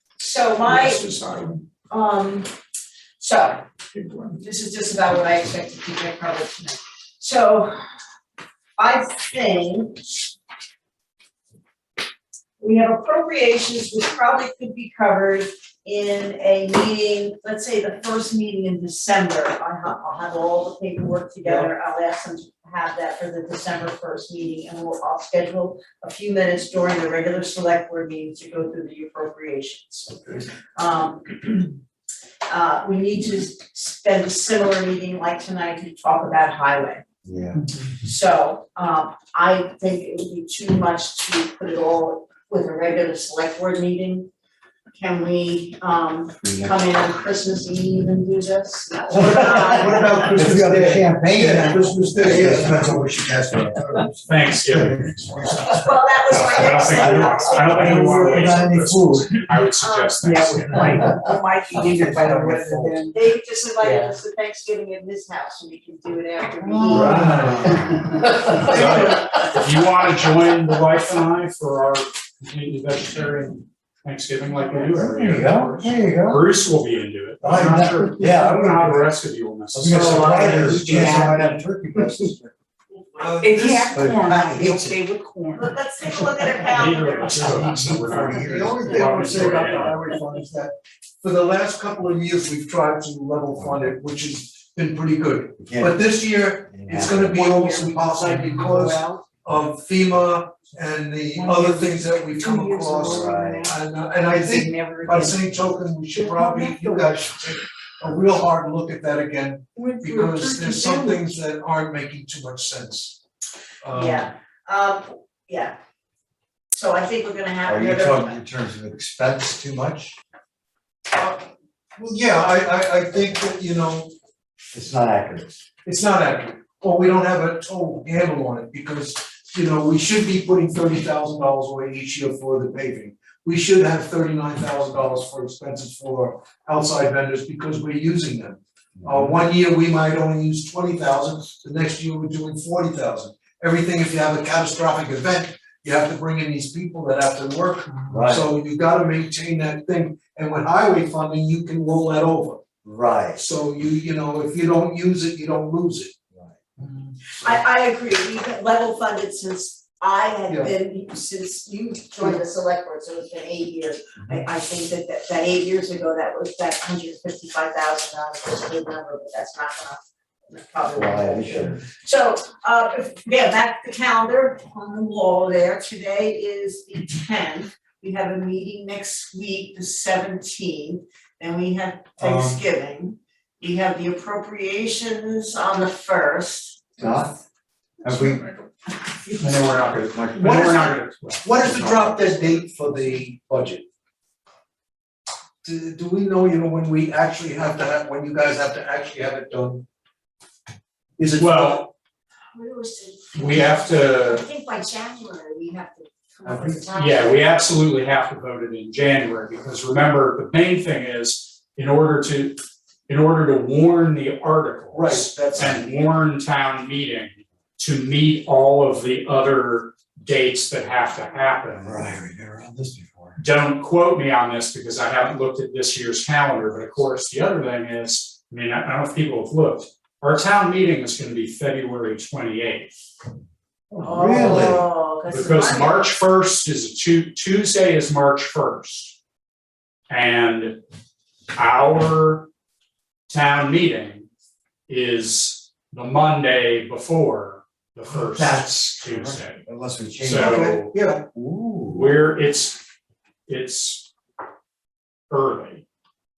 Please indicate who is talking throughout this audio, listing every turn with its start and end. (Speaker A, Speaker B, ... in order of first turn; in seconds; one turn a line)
Speaker A: 0.2-1.1
Speaker B: 0.7-1.0
Speaker A: 1.9-2.5
Speaker A: 3.2-3.6
Speaker A: 4.4-7.7
Speaker A: 8.8-10.2
Speaker A: 12.6-31.7
Speaker C: 21.4-21.7
Speaker A: 32.5-37.0
Speaker D: 37.2-37.6
Speaker A: 37.9-44.3
Speaker A: 44.9-50.4
Speaker D: 46.4-46.8
Speaker C: 49.1-53.0
Speaker D: 49.2-49.6
Speaker D: 50.3-54.1
Speaker E: 54.2-61.1
Speaker D: 54.7-55.7
Speaker A: 55.7-58.5
Speaker D: 56.9-59.3
Speaker A: 59.8-60.2
Speaker B: 60.2-63.1
Speaker D: 60.9-61.2
Speaker D: 62.0-62.8
Speaker C: 62.1-62.9
Speaker A: 63.1-67.8
Speaker D: 66.8-69.0
Speaker B: 66.9-67.5
Speaker C: 67.0-67.4
Speaker A: 68.5-68.9
Speaker E: 68.6-81.6
Speaker D: 74.9-76.5
Speaker D: 77.4-79.1
Speaker D: 79.7-82.5
Speaker B: 79.9-81.5
Speaker C: 83.2-84.2
Speaker B: 83.4-85.8
Speaker D: 83.9-85.0
Speaker A: 85.5-88.1
Speaker E: 86.6-90.0
Speaker D: 87.3-89.2
Speaker C: 88.1-113.2
Speaker D: 93.5-93.9
Speaker D: 95.6-96.0
Speaker D: 96.6-97.5
Speaker B: 97.2-99.2
Speaker B: 101.3-107.2
Speaker D: 103.0-103.7
Speaker B: 109.8-111.2
Speaker C: 113.8-114.3
Speaker A: 113.9-115.8
Speaker A: 116.7-118.4
Speaker D: 117.6-120.2
Speaker C: 121.1-124.1
Speaker D: 124.7-125.6
Speaker C: 125.8-152.6
Speaker D: 139.0-139.3
Speaker D: 148.1-148.4
Speaker D: 152.8-153.4
Speaker C: 153.4-156.1
Speaker A: 157.3-186.9
Speaker C: 160.5-160.7
Speaker D: 170.9-171.8
Speaker D: 182.2-182.6
Speaker D: 187.0-187.4
Speaker D: 188.0-188.5
Speaker E: 189.4-191.5
Speaker D: 189.9-190.8
Speaker C: 190.4-193.8
Speaker D: 191.5-192.6
Speaker C: 195.6-199.8
Speaker C: 201.2-201.9
Speaker E: 201.4-201.8
Speaker A: 202.5-207.5
Speaker E: 203.3-204.4
Speaker C: 206.4-206.9
Speaker E: 206.9-222.0
Speaker C: 214.9-215.8
Speaker D: 221.7-223.4
Speaker E: 223.4-232.9
Speaker D: 233.9-234.9
Speaker A: 234.0-236.1
Speaker E: 235.3-239.2
Speaker E: 240.1-240.8
Speaker E: 241.5-242.5
Speaker E: 243.3-244.3
Speaker E: 244.9-249.6
Speaker D: 248.3-250.8
Speaker E: 250.2-250.9
Speaker C: 250.4-251.2
Speaker D: 251.3-252.2
Speaker E: 251.9-252.8
Speaker E: 253.5-254.1
Speaker E: 255.3-255.8